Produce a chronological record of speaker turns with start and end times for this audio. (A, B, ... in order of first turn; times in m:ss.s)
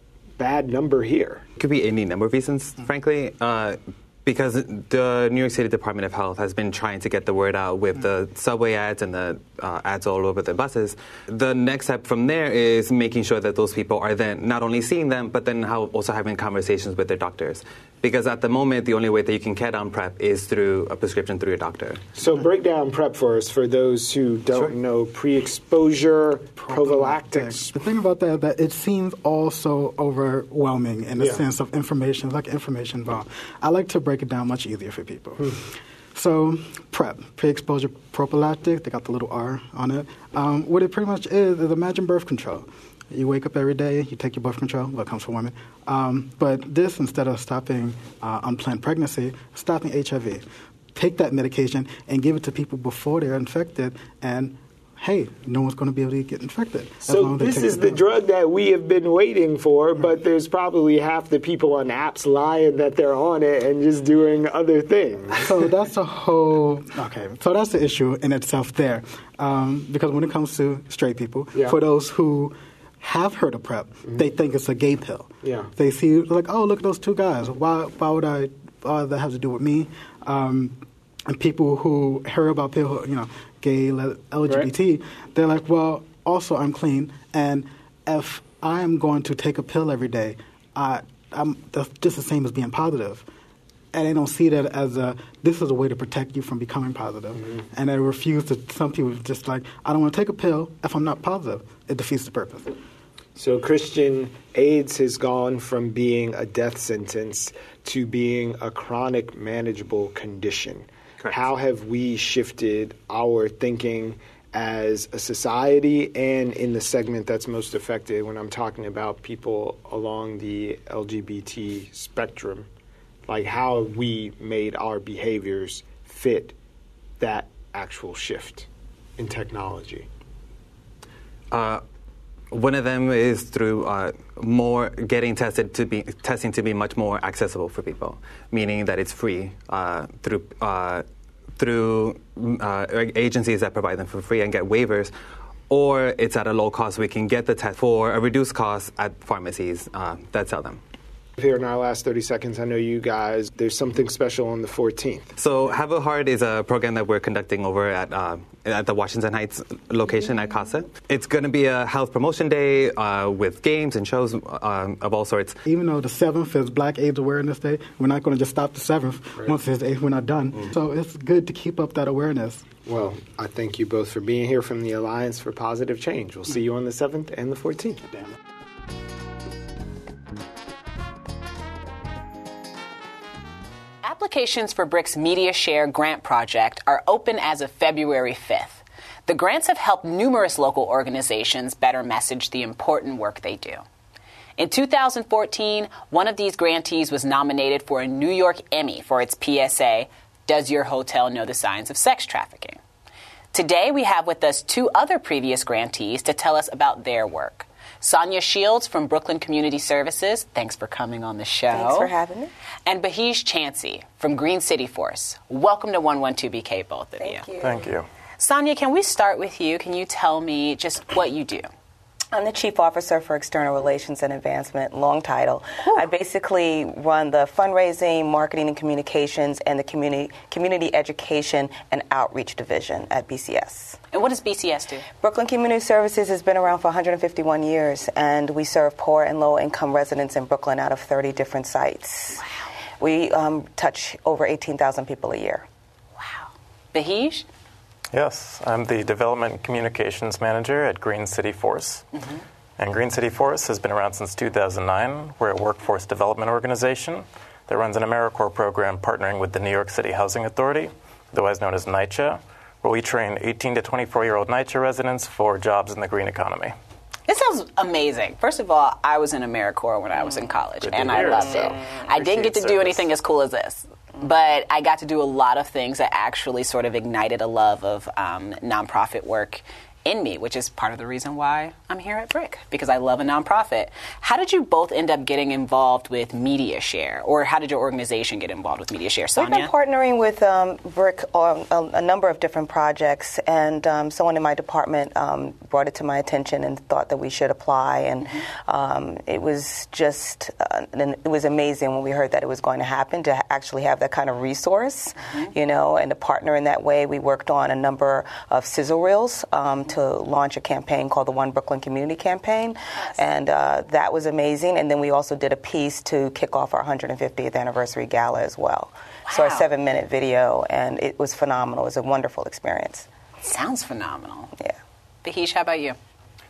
0:00.4-0:01.4 A
0:01.6-0:22.0 B
0:22.2-0:27.7 A
0:26.6-0:58.0 C
0:57.0-1:05.6 A
1:05.3-1:33.3 C
1:15.4-1:15.7 A
1:33.9-1:42.7 C
1:43.4-2:02.7 A
2:03.3-2:06.6 A
2:07.2-2:10.1 A
2:11.5-2:11.8 B
2:12.5-2:21.0 B
2:21.6-2:25.1 B
2:25.7-2:30.8 B
2:31.4-2:35.3 A
2:35.4-2:45.6 B
2:45.6-2:52.7 C
2:52.8-2:58.1 A
3:04.0-3:13.8 D
3:14.6-3:22.8 D
3:23.5-3:32.1 D
3:31.7-3:32.5 E
3:32.9-3:37.4 D
3:37.2-3:37.9 E
3:37.6-3:38.1 F
3:38.4-3:41.7 D
3:42.3-3:54.0 E
3:54.1-3:55.1 D
3:55.2-4:02.4 E
4:02.4-4:02.7 D
4:03.0-4:05.7 E
4:06.2-4:07.5 D
4:08.1-4:12.1 F
4:12.8-4:26.8 F
4:27.3-4:49.7 D
4:30.8-4:33.1 F
4:49.4-5:23.1 E
5:19.3-5:19.6 D
5:23.4-5:24.5 D
5:25.2-5:26.0 D